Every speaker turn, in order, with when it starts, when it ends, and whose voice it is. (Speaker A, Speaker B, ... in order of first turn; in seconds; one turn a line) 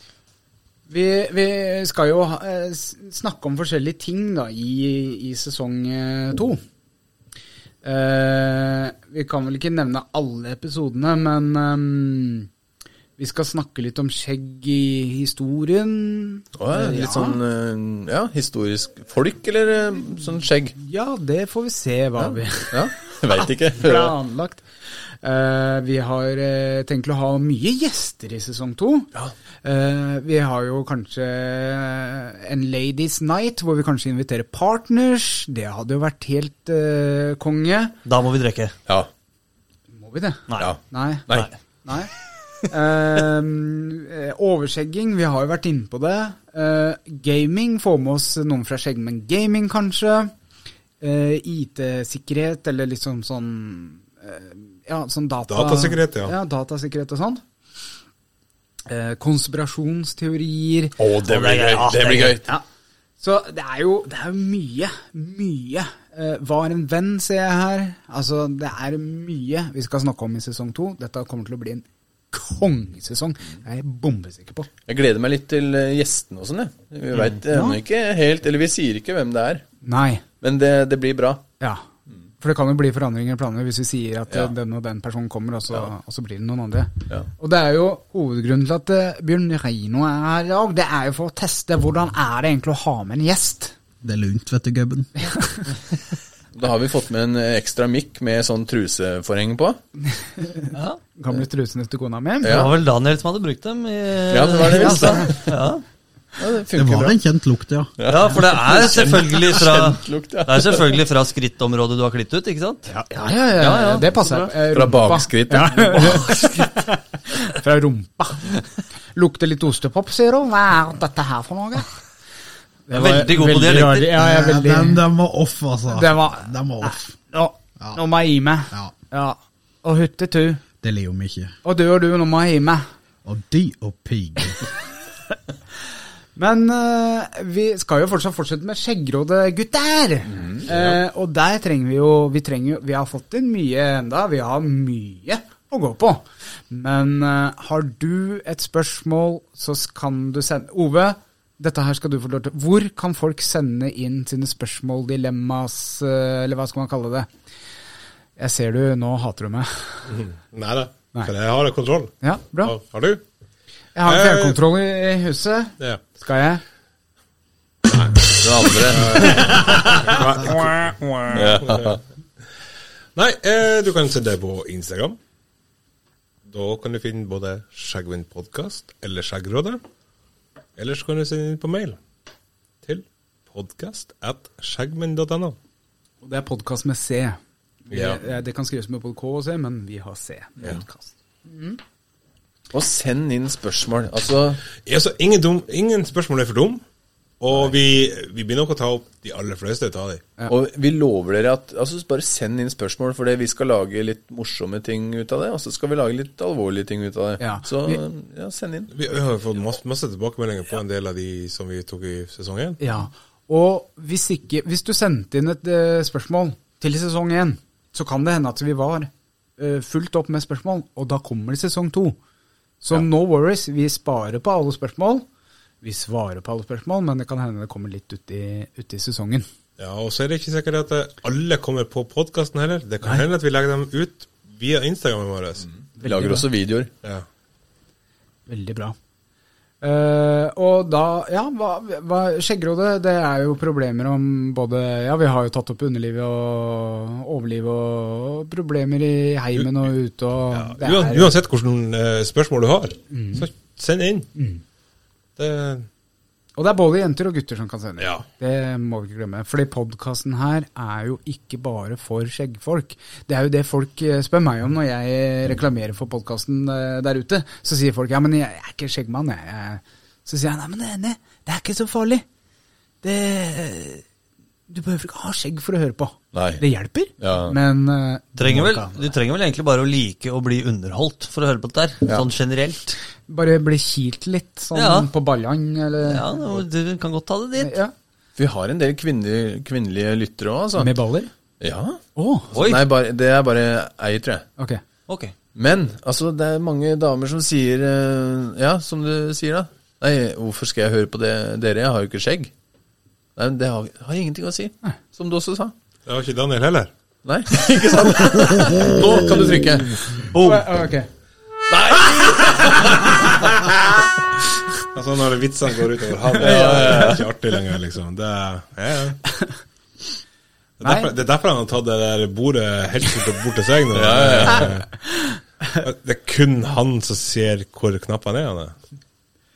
Speaker A: 0.9-6.6
Speaker A: 7.8-12.5
Speaker A: 13.2-17.4
Speaker B: 16.6-20.8
Speaker A: 20.8-24.6
Speaker B: 22.2-24.1
Speaker A: 25.2-29.1
Speaker A: 29.6-38.0
Speaker C: 38.0-38.7
Speaker A: 39.9-41.3
Speaker C: 40.5-40.7
Speaker B: 40.6-41.5
Speaker A: 41.9-42.1
Speaker A: 42.7-50.3
Speaker A: 51.0-57.4
Speaker D: 55.5-56.4
Speaker A: 58.9-61.0
Speaker B: 61.0-62.5
Speaker C: 61.3-62.4
Speaker A: 63.2-74.7
Speaker B: 74.9-79.6
Speaker A: 77.5-77.8
Speaker A: 79.8-80.2
Speaker B: 80.4-81.4
Speaker A: 82.4-93.8
Speaker E: 94.0-95.1
Speaker A: 95.2-95.7
Speaker B: 96.5-99.8
Speaker A: 100.2-102.6
Speaker B: 102.4-102.7
Speaker C: 102.5-105.8
Speaker B: 104.3-105.5
Speaker A: 104.7-105.3
Speaker B: 106.4-107.2
Speaker E: 106.7-107.9
Speaker B: 108.0-110.9
Speaker C: 108.1-112.9
Speaker A: 112.9-121.9
Speaker C: 113.6-114.5
Speaker B: 114.7-116.7
Speaker A: 122.9-125.0
Speaker C: 122.9-124.1
Speaker E: 124.1-127.1
Speaker A: 125.9-130.6
Speaker E: 130.8-131.5
Speaker A: 131.6-132.9
Speaker E: 133.2-134.6
Speaker A: 136.4-157.3
Speaker B: 140.3-141.0
Speaker A: 158.4-160.1
Speaker D: 160.1-163.2
Speaker A: 162.2-162.8
Speaker A: 163.9-166.6
Speaker D: 164.1-164.6
Speaker D: 165.8-166.0
Speaker D: 167.9-172.0
Speaker B: 168.4-170.2
Speaker B: 171.3-172.0
Speaker D: 173.2-175.2
Speaker D: 176.4-179.8
Speaker D: 180.8-182.0
Speaker D: 182.8-185.6
Speaker A: 186.2-187.4
Speaker A: 187.9-191.8
Speaker D: 187.9-188.2
Speaker B: 192.7-194.6
Speaker D: 194.8-196.8
Speaker D: 197.4-200.3
Speaker B: 200.5-208.9
Speaker A: 207.4-208.0
Speaker D: 208.9-212.8
Speaker A: 212.8-222.2
Speaker A: 222.8-225.2
Speaker A: 225.8-229.5
Speaker D: 229.8-235.7
Speaker A: 236.0-236.5
Speaker B: 236.0-236.9
Speaker A: 238.5-239.0
Speaker A: 239.8-251.3
Speaker D: 249.6-249.9
Speaker D: 250.5-254.3
Speaker A: 253.1-253.5
Speaker A: 254.3-254.6
Speaker D: 255.4-255.9
Speaker A: 256.6-272.2
Speaker D: 258.0-258.3
Speaker A: 273.0-274.0
Speaker A: 274.7-279.1
Speaker B: 276.3-276.6
Speaker B: 277.2-277.6
Speaker C: 278.4-283.0
Speaker A: 283.3-286.4
Speaker C: 284.8-285.1
Speaker C: 286.0-287.8
Speaker A: 287.6-287.9
Speaker B: 288.4-290.9
Speaker A: 290.8-291.3
Speaker B: 291.6-292.0
Speaker A: 292.2-292.5
Speaker C: 292.5-292.9
Speaker B: 292.5-294.5
Speaker C: 295.1-295.3
Speaker B: 295.6-302.5
Speaker B: 303.4-305.8
Speaker D: 306.1-306.9
Speaker B: 307.2-310.2
Speaker C: 310.3-310.6
Speaker A: 310.4-311.1
Speaker D: 312.6-313.8
Speaker D: 314.9-319.3
Speaker A: 316.4-317.3
Speaker B: 316.4-317.2
Speaker D: 320.8-324.9
Speaker A: 320.8-321.1
Speaker B: 323.9-324.7
Speaker D: 325.8-328.8